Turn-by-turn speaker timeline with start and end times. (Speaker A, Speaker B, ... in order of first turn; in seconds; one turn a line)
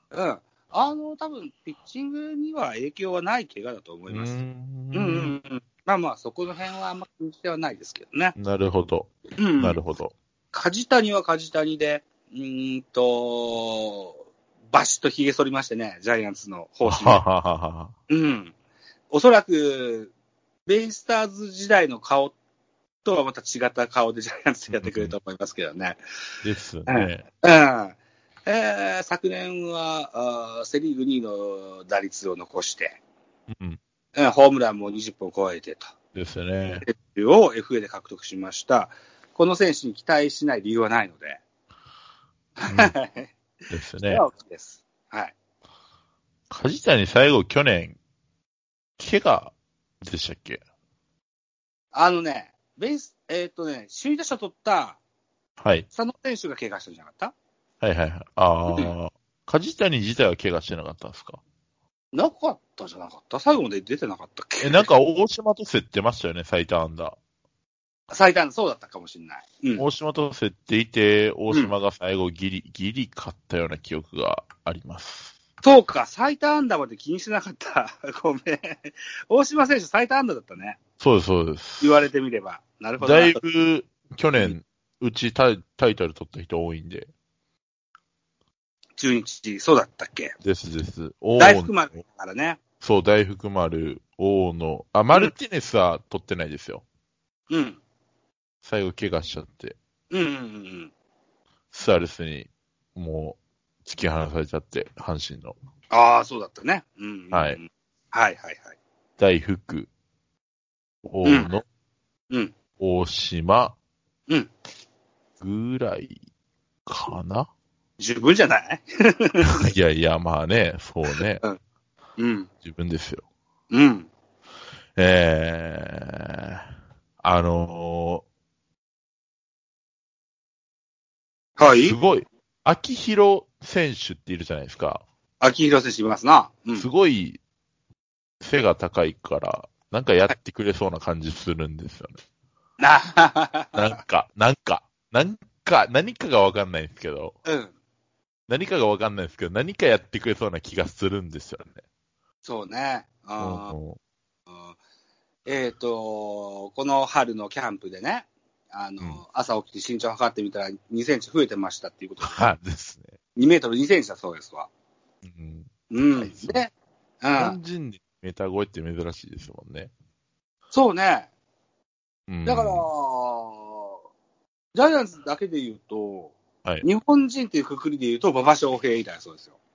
Speaker A: 0.1-4.4
Speaker B: 4.1-5.4
Speaker A: 4.9-8.3
Speaker B: 8.4-10.1
Speaker A: 9.4-9.8
Speaker A: 10.5-17.2
Speaker B: 16.9-17.9
Speaker A: 18.1-18.5
Speaker A: 19.1-20.1
Speaker A: 20.7-22.4
Speaker A: 23.1-26.0
Speaker B: 24.7-25.1
Speaker B: 26.4-27.2
Speaker A: 26.9-33.0
Speaker B: 33.5-33.8
Speaker A: 34.2-35.9
Speaker B: 36.1-36.9
Speaker A: 36.9-41.4
Speaker A: 42.6-43.3
Speaker B: 42.7-42.9
Speaker B: 43.7-44.2
Speaker A: 44.0-45.3
Speaker B: 46.5-48.0
Speaker B: 49.0-50.6
Speaker A: 51.9-55.0
Speaker B: 55.6-55.9
Speaker A: 55.9-57.3
Speaker B: 57.8-61.4
Speaker A: 62.1-64.9
Speaker B: 64.6-67.2
Speaker A: 68.1-69.8
Speaker B: 69.8-75.3
Speaker A: 75.6-80.8
Speaker B: 81.0-82.0
Speaker A: 81.8-83.4
Speaker B: 83.0-87.1
Speaker A: 89.0-90.3
Speaker B: 90.4-91.8
Speaker A: 91.4-92.6
Speaker B: 92.8-96.8
Speaker A: 97.5-97.8
Speaker B: 98.6-99.8
Speaker A: 100.1-100.9
Speaker B: 101.7-105.5
Speaker A: 105.9-108.8
Speaker B: 107.3-107.6
Speaker B: 109.2-109.9
Speaker B: 111.0-111.6
Speaker A: 111.2-111.5
Speaker B: 112.8-113.8
Speaker B: 115.4-116.2
Speaker B: 116.9-117.5
Speaker A: 118.0-119.6
Speaker B: 119.4-121.4
Speaker A: 122.2-122.5
Speaker B: 122.6-123.2
Speaker A: 123.7-124.1
Speaker B: 125.0-126.6
Speaker B: 127.2-128.2
Speaker A: 131.6-132.0
Speaker B: 131.7-135.0
Speaker A: 135.4-136.9
Speaker B: 136.8-137.4
Speaker B: 138.4-142.2
Speaker A: 142.8-144.0
Speaker B: 143.8-147.4
Speaker A: 147.4-147.7
Speaker B: 148.5-151.8
Speaker A: 152.4-153.7
Speaker B: 153.4-154.0
Speaker A: 154.5-154.8
Speaker A: 155.5-162.5
Speaker B: 162.2-163.2
Speaker A: 163.4-164.7
Speaker B: 165.2-166.6
Speaker A: 165.9-167.6
Speaker B: 167.4-169.9
Speaker A: 170.7-171.3
Speaker B: 172.3-172.9
Speaker A: 172.5-174.0
Speaker A: 174.8-179.6